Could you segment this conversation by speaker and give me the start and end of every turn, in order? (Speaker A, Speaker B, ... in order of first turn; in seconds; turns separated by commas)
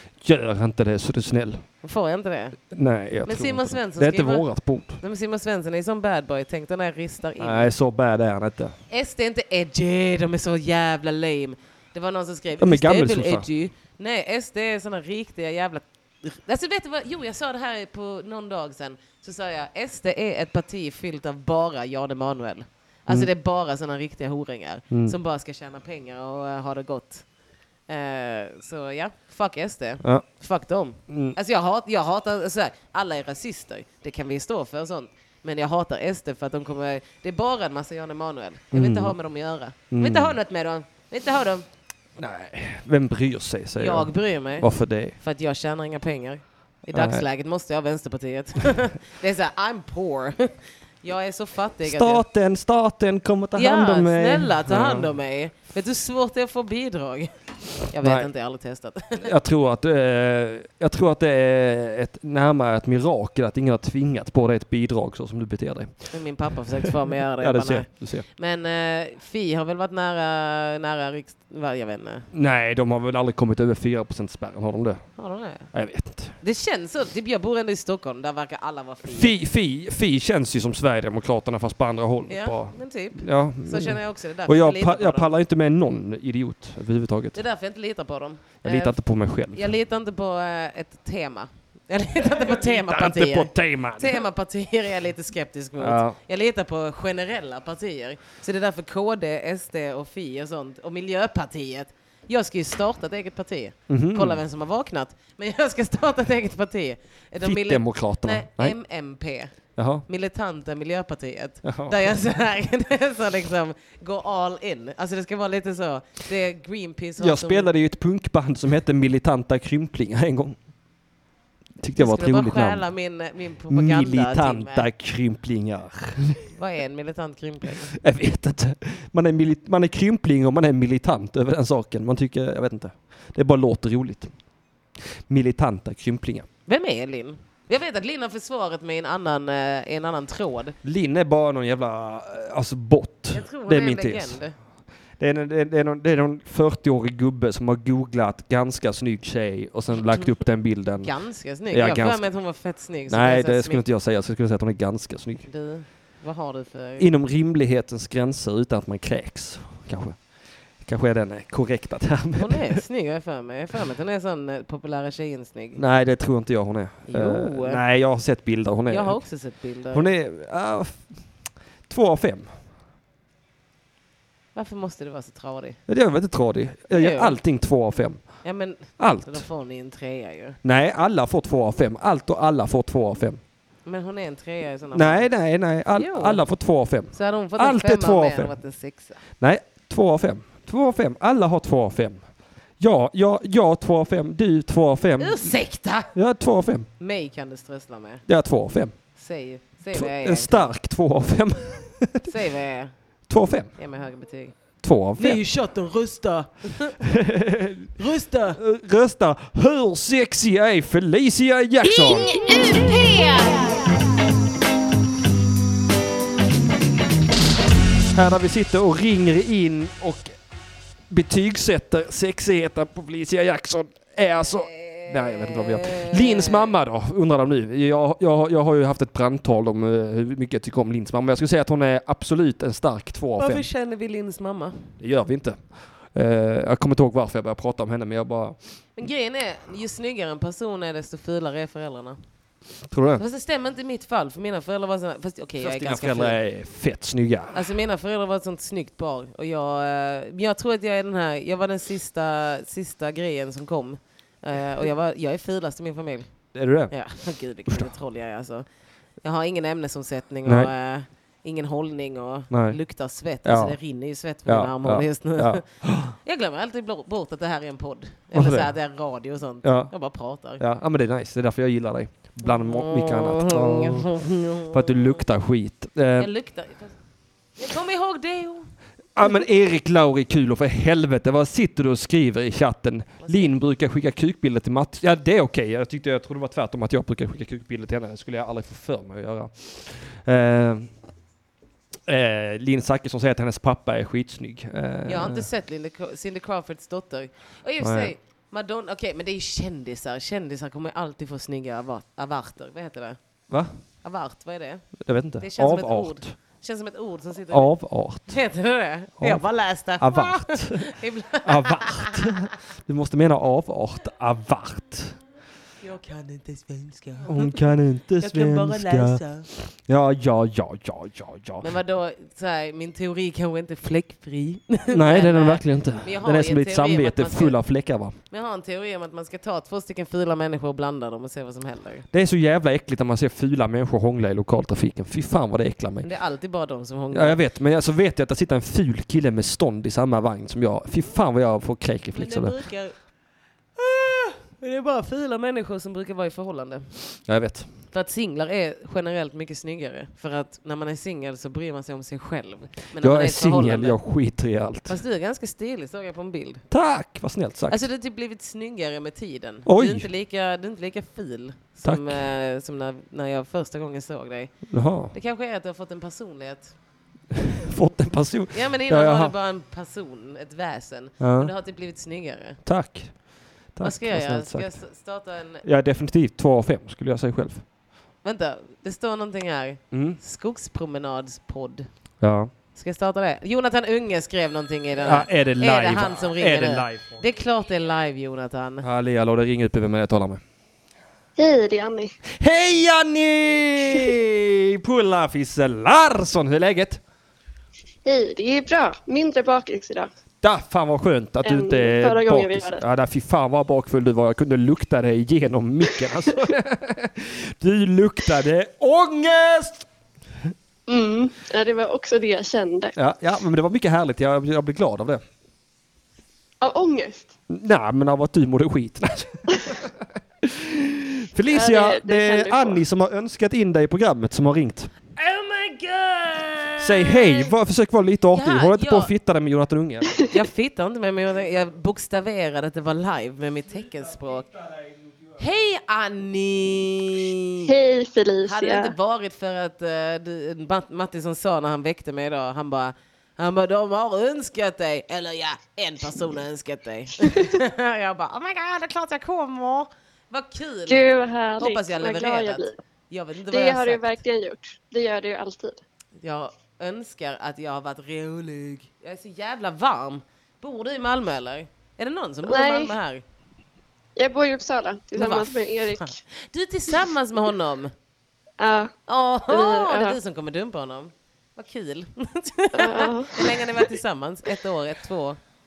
Speaker A: 0.2-1.6, Speaker B: 1.8-2.6, Speaker A: 2.7-5.0, Speaker B: 3.2-4.5, Speaker B: 5.0-7.7, Speaker A: 7.4-8.7, Speaker B: 8.9-27.2, Speaker A: 12.6-13.4, Speaker A: 24.9-25.1, Speaker B: 27.9-41.6, Speaker A: 31.1-31.3, Speaker A: 38.7-39.1, Speaker A: 39.9-40.4, Speaker A: 42.2-45.2, Speaker B: 43.8-52.2, Speaker A: 46.9-47.2, Speaker A: 51.8-55.1, Speaker B: 53.5-57.3, Speaker B: 57.8-59.3, Speaker A: 58.0-58.3, Speaker A: 59.2-66.1, Speaker B: 66.1-72.3, Speaker A: 67.4-68.2, Speaker A: 72.3-75.2, Speaker B: 75.2-75.7, Speaker A: 75.7-76.3, Speaker B: 76.4-79.3, Speaker A: 79.1-87.4, Speaker B: 82.3-85.3, Speaker B: 87.3-89.0, Speaker A: 88.6-89.6, Speaker B: 89.5-117.7, Speaker A: 92.4-94.2, Speaker A: 95.8-96.2, Speaker A: 103.9-104.4, Speaker A: 107.4-108.8, Speaker A: 109.8-110.0, Speaker A: 111.6-112.1, Speaker A: 117.2-120.6, Speaker A: 121.8-122.8, Speaker B: 122.0-124.9, Speaker A: 123.7-126.5, Speaker B: 126.5-127.9, Speaker A: 128.0-134.3, Speaker A: 135.3-136.5, Speaker B: 136.7-140.8, Speaker A: 140.8-144.4, Speaker B: 143.3-144.5, Speaker A: 145.2-151.1, Speaker B: 151.0-153.8, Speaker A: 151.6-152.3, Speaker A: 153.1-155.5, Speaker B: 155.4-157.1, Speaker A: 157.0-162.8, Speaker B: 162.3-165.8, Speaker A: 165.7-169.3, Speaker B: 167.1-167.8, Speaker B: 168.9-170.1, Speaker A: 169.9-171.2, Speaker A: 171.9-172.5, Speaker B: 174.5-175.8, Speaker A: 175.9-178.4, Speaker B: 176.9-177.4, Speaker B: 178.4-180.6, Speaker A: 179.0-179.4, Speaker A: 180.6-183.4, Speaker B: 183.8-185.3, Speaker A: 184.9-188.5, Speaker B: 185.9-186.4, Speaker B: 187.1-189.2, Speaker A: 189.4-192.2, Speaker A: 192.8-195.5, Speaker B: 195.2-196.1, Speaker A: 196.1-196.9, Speaker B: 197.0-198.2, Speaker A: 198.3-198.9, Speaker B: 199.1-200.7, Speaker A: 199.9-202.3, Speaker B: 202.3-202.9, Speaker A: 203.3-203.7, Speaker B: 203.7-204.6, Speaker A: 204.8-205.4, Speaker B: 205.2-207.0, Speaker A: 207.1-207.9, Speaker B: 208.0-208.6, Speaker A: 208.6-212.3, Speaker B: 211.8-213.8, Speaker A: 218.1-220.3, Speaker A: 221.1-233.7, Speaker B: 224.4-226.7, Speaker B: 233.4-234.9, Speaker A: 235.0-238.6, Speaker B: 238.9-242.2, Speaker A: 242.9-243.2, Speaker B: 243.2-246.4, Speaker A: 245.6-247.6, Speaker B: 247.5-258.6, Speaker A: 256.5-256.9, Speaker B: 259.2-270.6, Speaker A: 260.4-260.7, Speaker A: 262.5-262.8, Speaker A: 263.4-263.8, Speaker A: 264.4-266.1, Speaker A: 268.3-268.7, Speaker A: 269.6-269.9, Speaker A: 270.6-276.3, Speaker B: 272.4-275.2, Speaker B: 276.2-276.9, Speaker B: 277.6-278.7, Speaker A: 279.1-290.9, Speaker B: 283.2-283.6, Speaker A: 292.1-295.5, Speaker B: 295.1-303.2, Speaker A: 297.8-298.1, Speaker A: 303.5-303.8, Speaker B: 304.0-312.3, Speaker A: 305.0-306.4, Speaker A: 307.5-308.4, Speaker A: 309.2-315.2, Speaker B: 315.8-319.5, Speaker A: 317.3-321.7, Speaker B: 321.6-327.6, Speaker A: 324.9-328.2, Speaker B: 328.3-332.1, Speaker A: 332.1-336.1, Speaker B: 336.0-337.4, Speaker A: 337.1-342.6, Speaker B: 342.1-343.0, Speaker B: 343.8-347.1, Speaker A: 347.2-347.7, Speaker B: 347.9-354.0, Speaker A: 353.0-355.0, Speaker B: 354.9-356.6, Speaker A: 356.7-357.8, Speaker B: 357.7-366.7, Speaker A: 359.6-360.1, Speaker A: 361.8-362.2, Speaker A: 364.7-365.1, Speaker A: 367.5-369.3, Speaker B: 368.5-372.6, Speaker A: 371.2-371.5, Speaker A: 372.6-374.8, Speaker B: 373.8-375.6, Speaker A: 375.6-377.6, Speaker B: 378.2-381.9, Speaker A: 379.9-380.2, Speaker A: 382.2-382.5, Speaker B: 382.7-388.9, Speaker A: 385.0-387.2, Speaker A: 388.8-390.4, Speaker C: 391.4-392.1, Speaker A: 392.4-397.0, Speaker C: 398.0-400.1, Speaker A: 400.4-409.9, Speaker C: 401.5-402.8, Speaker C: 410.9-412.9, Speaker A: 412.9-415.2, Speaker C: 416.6-417.3, Speaker A: 417.5-419.8, Speaker A: 420.4-424.9, Speaker C: 421.5-422.8, Speaker B: 425.1-427.5, Speaker A: 426.8-430.2, Speaker B: 428.3-429.1, Speaker B: 430.3-434.5, Speaker B: 435.4-437.7, Speaker C: 437.6-438.9, Speaker B: 438.4-454.2, Speaker C: 450.9-452.7, Speaker C: 453.5-455.8, Speaker B: 456.2-463.2, Speaker C: 462.4-462.9, Speaker C: 464.2-466.1, Speaker B: 465.1-467.9, Speaker C: 468.6-468.9, Speaker B: 469.1-475.4, Speaker C: 469.5-470.1, Speaker C: 472.8-473.4